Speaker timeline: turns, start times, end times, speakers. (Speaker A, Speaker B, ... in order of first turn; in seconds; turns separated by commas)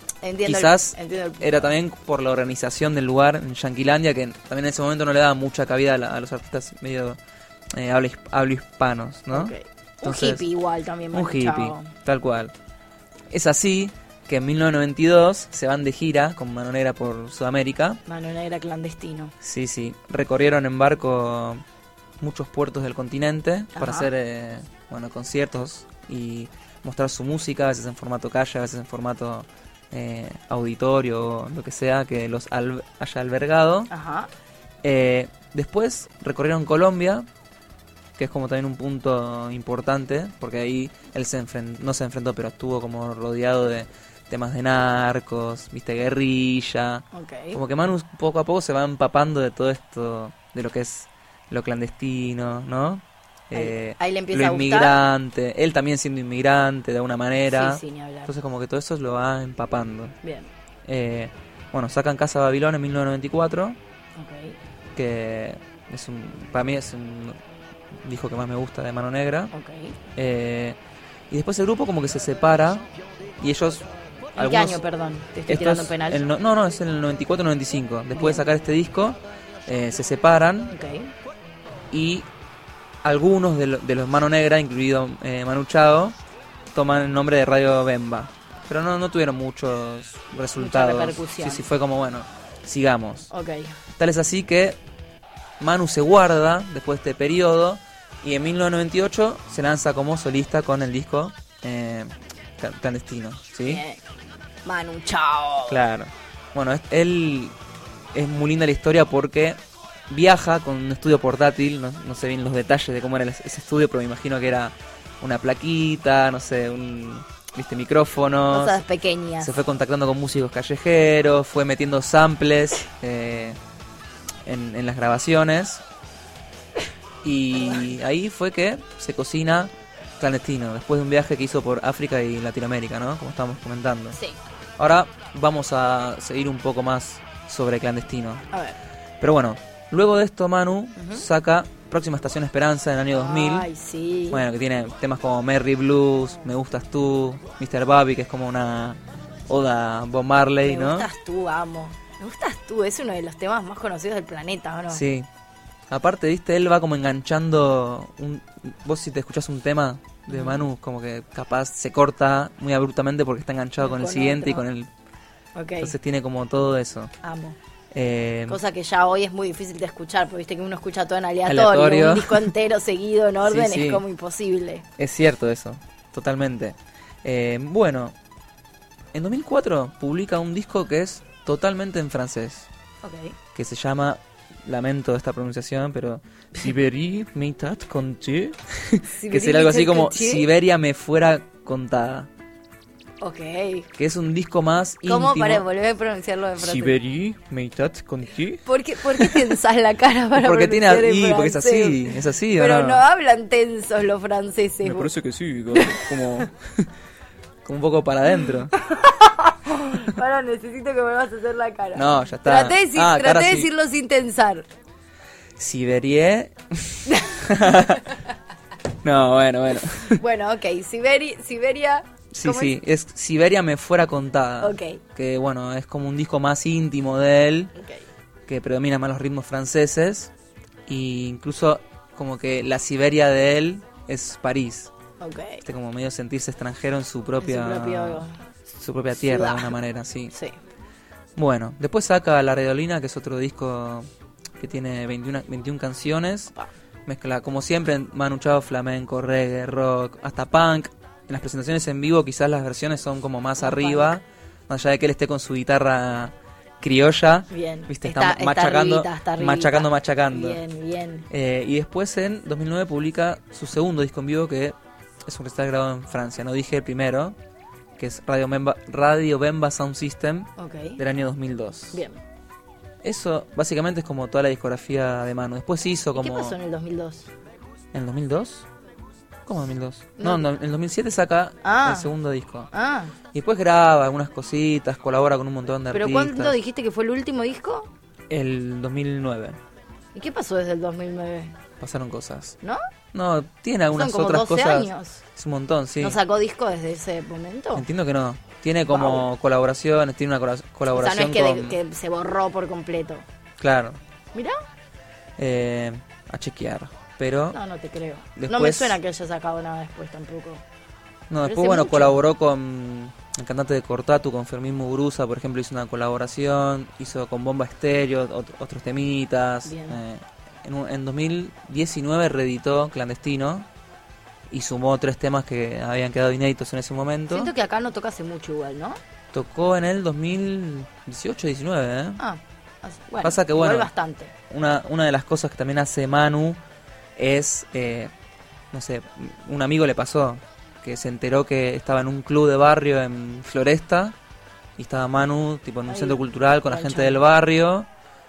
Speaker A: 0.2-1.7, Speaker B: 0.4-7.2, Speaker B: 7.7-9.5, Speaker A: 9.3-11.9, Speaker B: 10.0-10.4, Speaker B: 11.1-12.5, Speaker B: 13.3-18.0, Speaker A: 18.1-19.3, Speaker B: 19.4-21.6, Speaker B: 22.2-33.9, Speaker A: 23.8-24.1, Speaker A: 33.9-34.3, Speaker B: 34.8-37.2, Speaker B: 38.2-60.1, Speaker A: 47.1-47.6, Speaker A: 53.5-55.0, Speaker A: 57.5-58.3, Speaker A: 60.2-60.5, Speaker B: 60.9-63.8, Speaker A: 64.2-64.6, Speaker B: 64.9-67.4, Speaker B: 67.9-69.5, Speaker A: 69.5-70.0, Speaker B: 70.1-70.8, Speaker B: 71.3-72.8, Speaker B: 73.4-74.8, Speaker A: 74.3-76.2, Speaker B: 75.5-80.7, Speaker A: 78.1-78.4, Speaker A: 80.7-81.1, Speaker B: 81.9-82.3, Speaker B: 83.0-86.2, Speaker B: 86.7-93.3, Speaker A: 90.5-91.7, Speaker A: 93.3-93.8, Speaker B: 94.0-94.8, Speaker B: 95.6-103.8, Speaker A: 103.6-104.0, Speaker A: 104.6-105.8, Speaker B: 105.7-107.5, Speaker B: 108.1-118.8, Speaker A: 118.5-119.5, Speaker B: 119.4-123.6, Speaker B: 124.5-125.8, Speaker B: 127.2-134.2, Speaker A: 127.6-127.8, Speaker A: 134.1-134.4, Speaker B: 134.8-138.4, Speaker B: 139.2-143.7, Speaker A: 141.0-141.2, Speaker A: 143.1-144.4, Speaker B: 144.3-151.1, Speaker A: 150.6-155.0, Speaker B: 154.9-155.3, Speaker B: 155.9-164.9, Speaker A: 160.3-160.6, Speaker A: 163.8-164.6, Speaker A: 165.5-165.9, Speaker B: 165.8-167.1, Speaker A: 167.2-167.6, Speaker B: 167.9-168.6, Speaker A: 168.5-174.8, Speaker B: 171.5-172.5, Speaker B: 173.4-174.0, Speaker B: 175.0-178.1, Speaker B: 179.1-182.7, Speaker A: 183.0-183.3, Speaker B: 183.5-192.3, Speaker A: 189.1-190.5, Speaker A: 193.2-193.9, Speaker B: 193.9-195.6, Speaker A: 195.0-197.0, Speaker B: 196.6-199.6, Speaker A: 198.6-205.1, Speaker B: 200.3-203.0, Speaker B: 204.8-206.9, Speaker A: 205.7-206.4, Speaker B: 207.6-208.7, Speaker A: 208.8-214.6, Speaker B: 211.9-213.7, Speaker B: 215.6-218.0, Speaker A: 217.1-217.4, Speaker B: 219.0-220.2, Speaker A: 220.2-222.7, Speaker B: 222.3-227.7, Speaker A: 224.6-225.0, Speaker A: 227.8-228.0, Speaker B: 228.5-230.3, Speaker B: 230.9-234.9, Speaker A: 235.2-235.6, Speaker B: 235.6-240.3, Speaker A: 237.4-238.4, Speaker A: 239.2-239.8, Speaker A: 240.3-240.6, Speaker B: 241.3-244.1, Speaker B: 244.6-246.5, Speaker B: 247.1-260.6, Speaker A: 253.6-254.2, Speaker A: 257.5-261.2, Speaker B: 261.3-267.4, Speaker B: 268.0-272.0, Speaker A: 270.6-271.0, Speaker A: 271.9-272.2, Speaker B: 273.0-276.6, Speaker A: 276.1-277.3, Speaker B: 277.9-278.7, Speaker B: 279.4-282.7, Speaker A: 280.2-280.5, Speaker A: 281.6-282.1, Speaker A: 282.7-283.1, Speaker B: 283.3-286.6, Speaker A: 285.9-287.9, Speaker B: 288.3-289.6, Speaker A: 290.1-291.6, Speaker B: 291.8-292.6, Speaker B: 293.1-296.1, Speaker A: 293.9-295.2, Speaker A: 296.0-297.9, Speaker B: 297.7-301.8, Speaker A: 298.9-299.3, Speaker A: 300.9-303.2, Speaker B: 303.6-304.0, Speaker B: 305.4-307.6, Speaker A: 307.5-310.6, Speaker B: 308.4-309.0, Speaker B: 311.3-323.6, Speaker A: 311.4-312.2, Speaker A: 319.6-320.0, Speaker B: 324.5-327.5, Speaker A: 327.3-329.0, Speaker B: 329.3-332.2, Speaker A: 332.2-334.3, Speaker B: 333.2-333.9, Speaker B: 334.5-336.6, Speaker B: 337.2-338.1, Speaker B: 338.7-344.1, Speaker B: 344.8-347.9, Speaker A: 345.9-347.2